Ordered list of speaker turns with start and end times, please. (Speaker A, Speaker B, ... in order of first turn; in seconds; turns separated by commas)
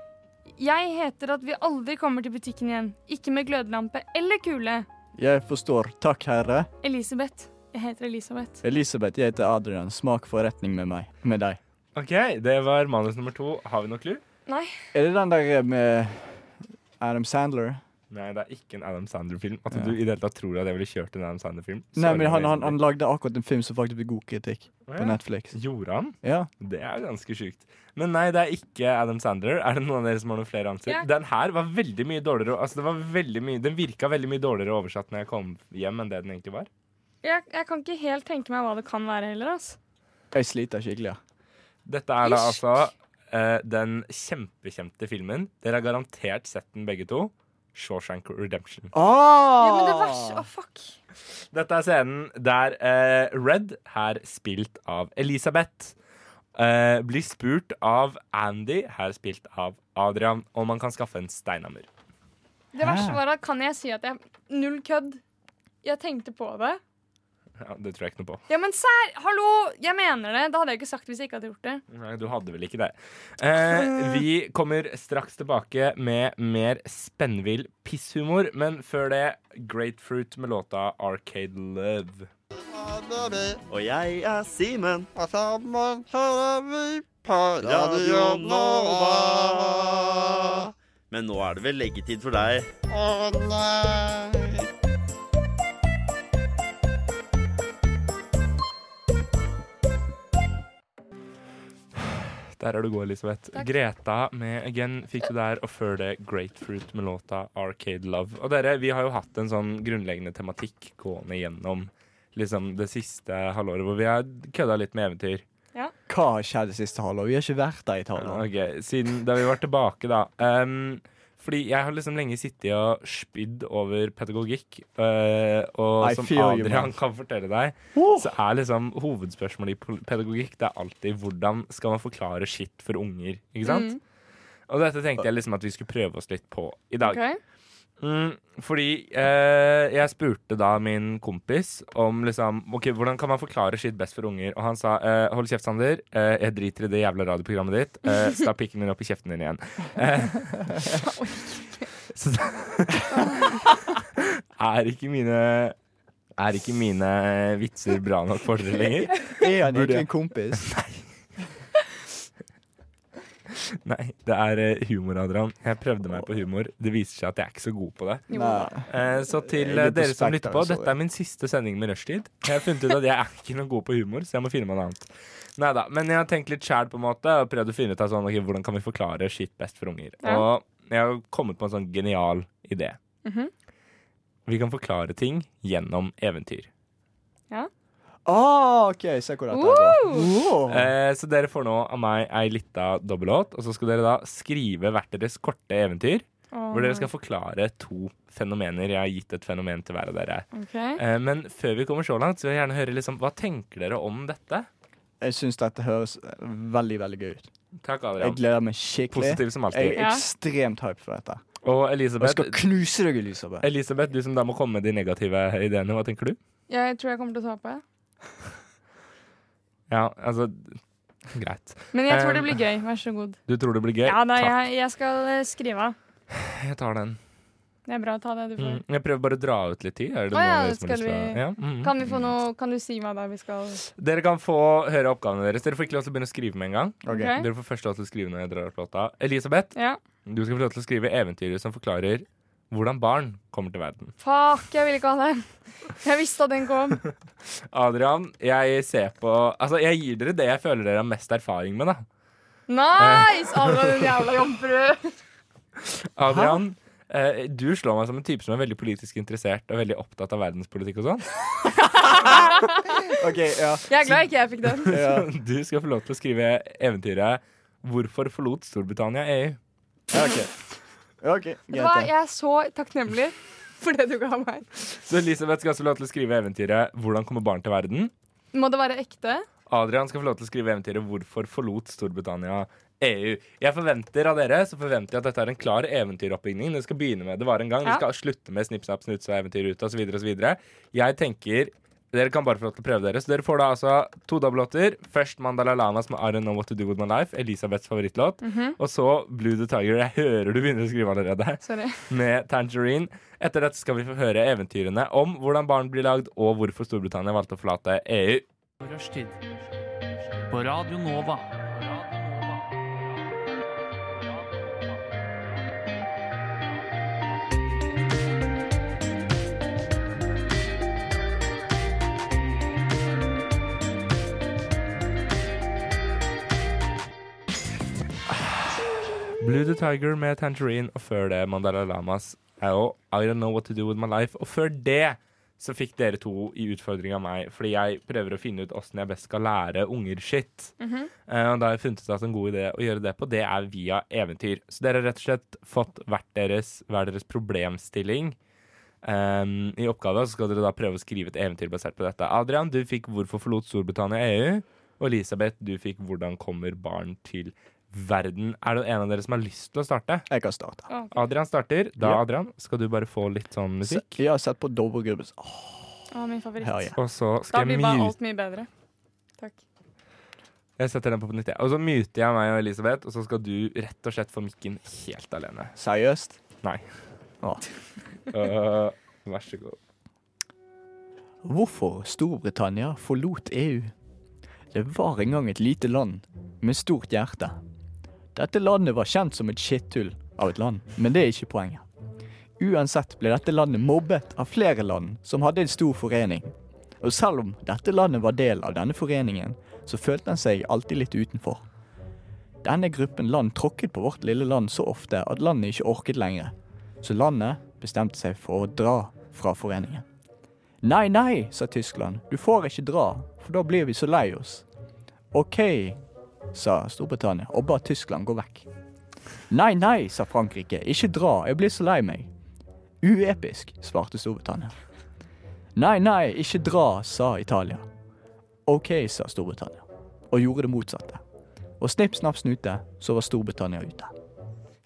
Speaker A: 0.6-4.9, Speaker B: 5.2-6.7, Speaker A: 6.8-8.6, Speaker B: 8.6-11.6, Speaker C: 11.9-14.2, Speaker A: 14.5-14.7, Speaker B: 14.9-17.8, Speaker C: 18.1-22.8, Speaker B: 22.0-25.6, Speaker C: 24.9-36.7, Speaker B: 26.2-26.5, Speaker A: 37.2-39.8, Speaker B: 40.3-41.2, Speaker C: 41.9-48.9, Speaker A: 42.2-42.6, Speaker B: 48.9-50.4, Speaker A: 49.6-51.0, Speaker C: 51.5-55.9, Speaker C: 56.5-61.9, Speaker A: 62.7-65.2, Speaker B: 62.8-63.2, Speaker A: 65.8-66.8, Speaker C: 67.6-68.4, Speaker A: 68.5-71.8, Speaker C: 71.9-82.3, Speaker A: 73.7-74.2, Speaker D: 82.7-83.6, Speaker E: 83.7-85.1, Speaker D: 85.2-90.7, Speaker E: 87.6-89.1, Speaker E: 91.1-92.7, Speaker D: 92.9-94.7, Speaker C: 102.0-115.4, Speaker B: 116.1-118.4, Speaker C: 118.2-134.0, Speaker B: 126.0-126.9, Speaker B: 128.0-128.3, Speaker A: 133.6-134.0, Speaker C: 134.7-137.2, Speaker A: 137.0-137.4, Speaker C: 138.0-151.1, Speaker A: 150.9-151.9, Speaker C: 152.1-155.8, Speaker A: 153.1-153.6, Speaker C: 156.4-161.1, Speaker B: 159.3-160.7, Speaker C: 163.5-168.3, Speaker A: 168.3-168.7, Speaker B: 168.3-170.9, Speaker C: 168.9-183.0, Speaker A: 183.2-183.5, Speaker C: 184.5-186.7, Speaker B: 188.2-190.9, Speaker A: 189.5-190.3, Speaker C: 190.7-204.7, Speaker A: 196.5-197.1, Speaker A: 200.5-201.0, Speaker B: 205.2-207.5, Speaker C: 207.8-208.4, Speaker B: 208.2-211.4, Speaker C: 209.1-210.0, Speaker A: 210.0-210.2, Speaker C: 211.6-212.6, Speaker B: 212.2-213.7, Speaker C: 213.6-216.4, Speaker A: 216.7-217.8, Speaker C: 219.9-222.6, Speaker A: 221.9-223.4, Speaker C: 223.5-224.6, Speaker A: 224.0-226.0, Speaker C: 226.3-227.2, Speaker A: 227.9-228.8, Speaker C: 228.6-232.2, Speaker A: 230.3-233.8, Speaker C: 234.0-239.7, Speaker B: 237.1-237.3, Speaker A: 237.1-237.5, Speaker C: 240.2-244.2, Speaker A: 244.2-247.0, Speaker C: 247.7-252.1, Speaker A: 252.7-255.2, Speaker C: 253.0-253.8, Speaker C: 255.8-261.3, Speaker B: 256.3-256.6, Speaker A: 262.0-263.1, Speaker B: 263.1-264.2, Speaker A: 263.9-264.9, Speaker B: 264.9-265.3, Speaker C: 264.9-269.6, Speaker B: 270.1-270.5, Speaker B: 271.2-272.1, Speaker A: 271.7-274.7, Speaker C: 274.9-278.1, Speaker A: 278.5-279.5, Speaker C: 279.7-308.5, Speaker A: 298.4-298.8, Speaker A: 301.6-302.0, Speaker F: 308.8-309.7, Speaker F: 310.3-313.5, Speaker F: 314.2-315.2, Speaker C: 328.3-340.8, Speaker A: 340.8-341.1, Speaker C: 341.3-348.4, Speaker C: 349.0-360.3, Speaker B: 360.3-360.9, Speaker A: 360.9-361.1, Speaker C: 361.1-364.2, Speaker B: 363.8-366.0, Speaker A: 366.1-366.9, Speaker B: 366.6-367.0, Speaker C: 367.0-368.1, Speaker A: 367.5-368.7, Speaker C: 370.8-375.7, Speaker B: 375.8-376.4, Speaker C: 378.3-379.8, Speaker B: 381.4-383.9, Speaker B: 384.7-387.6, Speaker B: 388.3-391.9, Speaker B: 392.6-401.6, Speaker B: 402.6-410.1, Speaker B: 410.8-414.6, Speaker B: 415.3-416.0, Speaker B: 416.5-418.7, Speaker B: 419.5-422.3, Speaker B: 423.0-424.8, Speaker B: 425.8-427.9, Speaker B: 428.7-431.2, Speaker B: 431.8-434.1